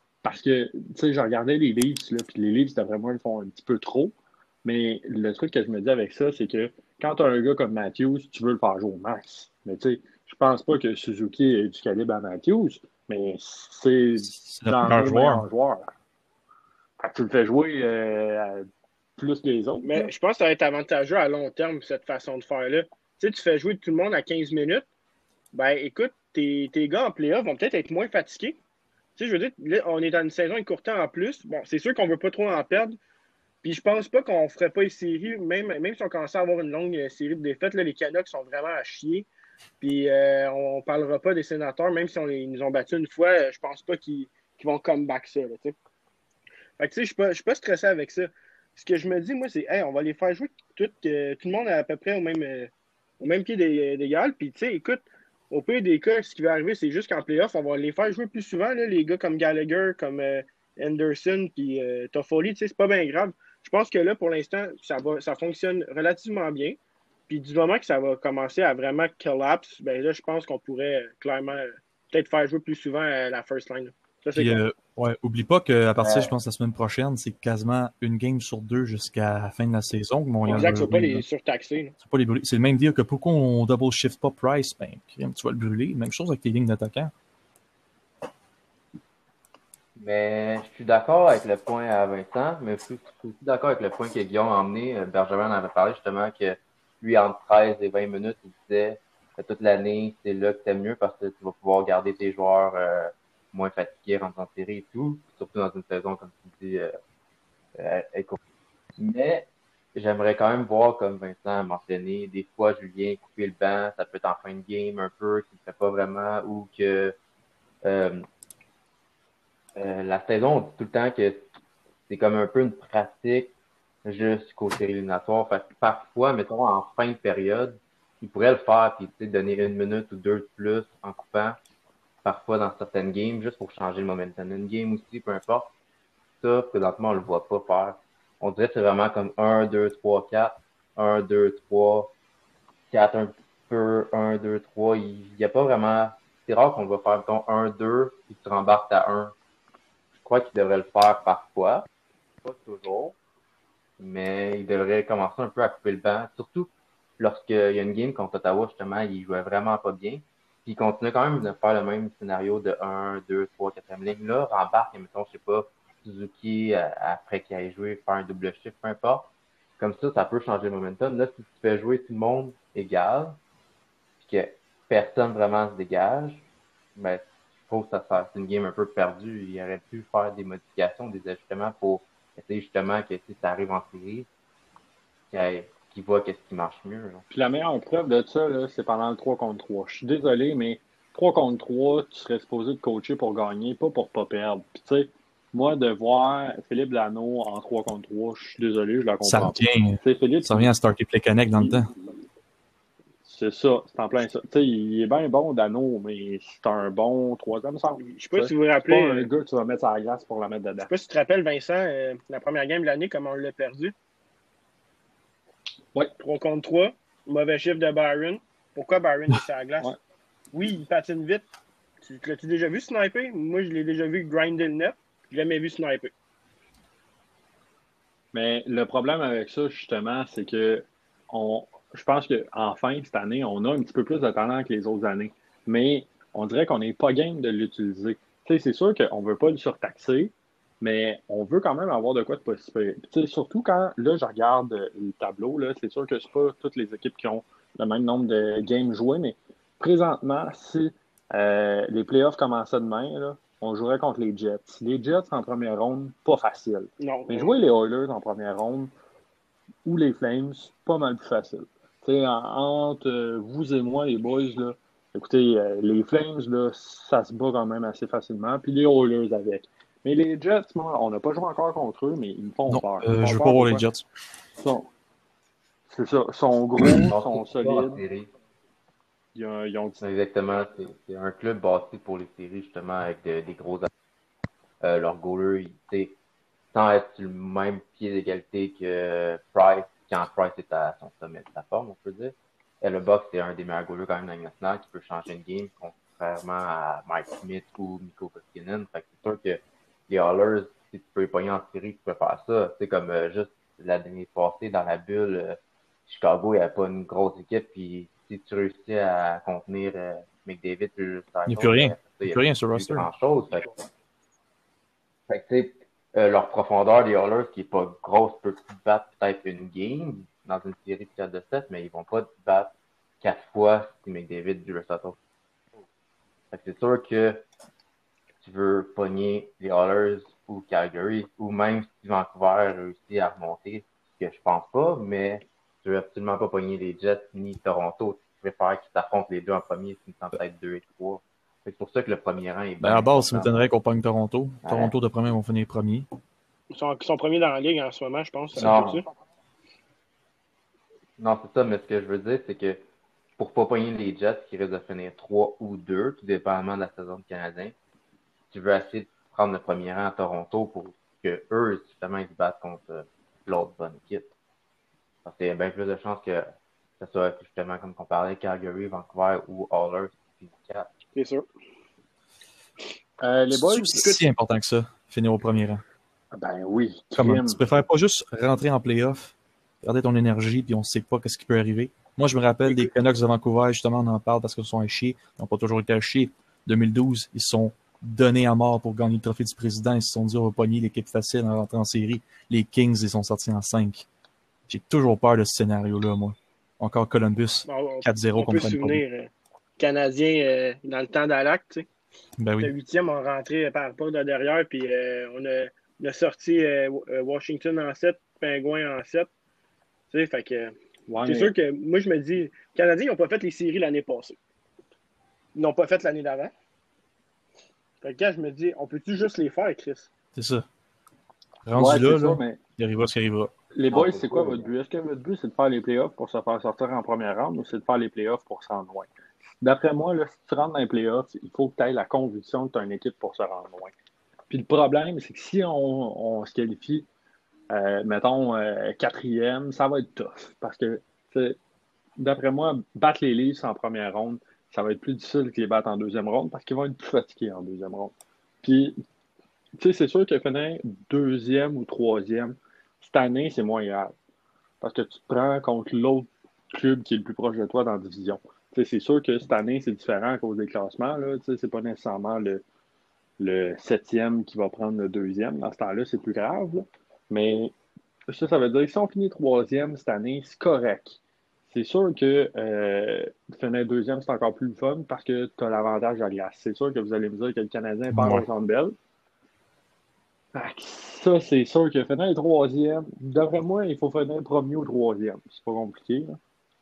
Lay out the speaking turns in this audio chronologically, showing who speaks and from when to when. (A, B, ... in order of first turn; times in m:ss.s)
0:00.2-0:15.9 A
0:14.3-0:15.4 B
0:17.0-0:20.1 A
0:19.8-0:24.8 C
0:25.5-0:28.6 C
0:29.2-0:33.0 C
0:33.6-0:39.3 C
0:39.8-0:45.8 C
0:46.8-1:06.8 C
1:07.3-1:14.6 C
1:14.4-1:21.2 B
1:20.4-1:21.9 C
1:20.5-1:20.9 A
1:22.0-1:27.1 B
1:30.0-1:46.9 D
1:47.8-1:48.4 D
1:49.0-1:57.1 D
1:57.8-1:58.3 D
1:59.8-2:01.5 D
2:02.1-2:03.5 D
2:04.0-2:11.6 D
2:12.2-2:15.7 D
2:16.4-2:22.1 D
2:22.9-2:29.4 D
2:30.2-2:31.9 D
2:32.4-2:33.2 D
2:34.0-2:53.4 D
2:54.2-3:04.3 D
3:05.3-3:07.2 D
3:07.3-3:20.7 A
3:19.2-3:21.9 B
3:21.6-3:21.9 A
3:23.2-3:30.9 A
3:28.0-3:29.3 C
3:30.9-3:33.9 C
3:36.2-3:39.9 C
3:40.5-3:41.5 C
3:42.0-3:46.1 C
3:48.3-4:18.9 A
4:17.0-4:17.5 C
4:19.8-4:33.8 A
4:32.7-4:34.0 B
4:34.6-4:34.9 A
4:35.9-4:38.0 A
4:37.1-4:38.3 D
4:39.3-4:40.0 A
4:40.0-4:43.9 D
4:44.8-4:46.2 D
4:46.7-5:13.7 D
5:11.5-5:13.1 B
5:15.3-5:25.2 D
5:26.5-5:27.5 D
5:28.4-5:43.6 D
5:42.8-5:46.1 B
5:44.6-5:44.9 D
5:46.7-5:49.0 C
5:48.6-5:49.0 D
5:51.2-5:52.8 D
5:53.4-5:57.8 D
5:58.5-6:04.3 D
6:05.2-6:10.9 D
6:11.1-6:11.4 C
6:13.2-6:14.2 A
6:13.5-6:15.8 B
6:16.3-6:17.6 A
6:17.2-6:34.1 B
6:34.7-6:39.0 B
6:37.7-6:41.9 C
6:42.4-6:42.7 B
6:42.6-6:49.3 C
6:50.1-6:54.4 C
6:51.1-6:51.5 A
6:55.6-6:56.5 C
6:58.0-7:00.1 C
7:00.4-7:00.6 B
7:01.7-7:03.5 B
7:01.8-7:02.6 A
7:03.7-7:09.1 A
7:03.9-7:04.7 D
7:09.6-7:13.9 A
7:14.5-7:17.1 A
7:17.7-7:21.6 A
7:22.2-7:29.0 A
7:29.8-7:34.1 A
7:34.8-7:42.6 A
7:43.4-7:47.7 A
7:48.3-7:59.0 A
7:58.1-7:58.4 B
8:00.5-8:06.4 A